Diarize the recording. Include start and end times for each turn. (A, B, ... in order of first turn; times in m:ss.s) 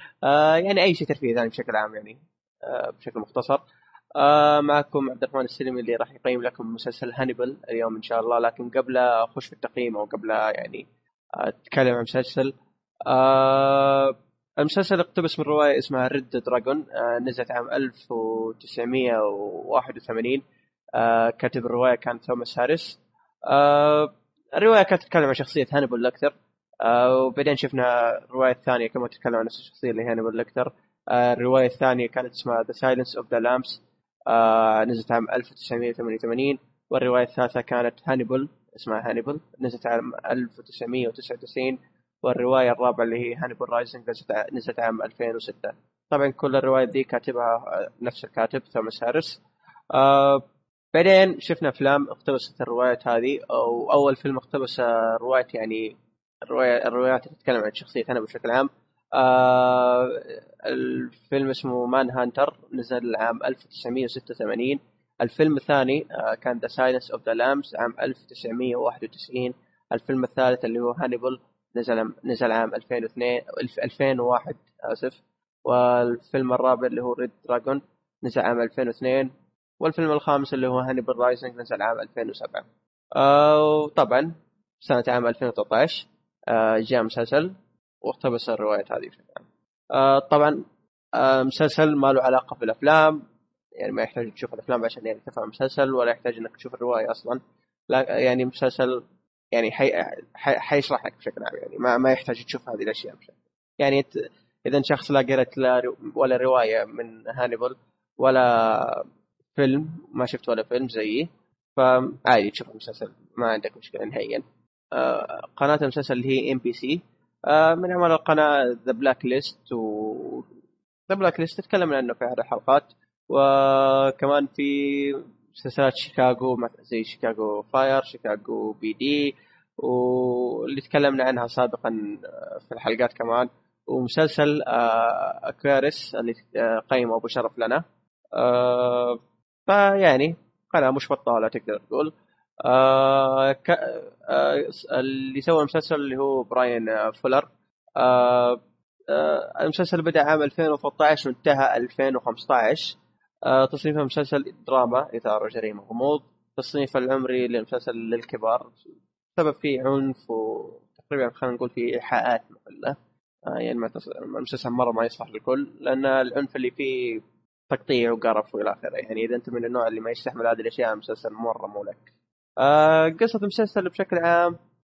0:00.2-0:03.6 A
0:04.2-0:10.8 A
0:11.4-0:12.5 A
0:13.1-0:20.4 A
0:21.0-0:49.4 A
0:49.9-1:27.5 A
1:28.0-1:30.6 A
1:31.2-1:33.2 A
1:33.8-1:44.1 A
1:44.7-2:00.5 A
2:01.1-2:17.8 A
2:18.4-2:22.1 A
2:22.6-2:52.1 A
2:52.6-2:54.6 A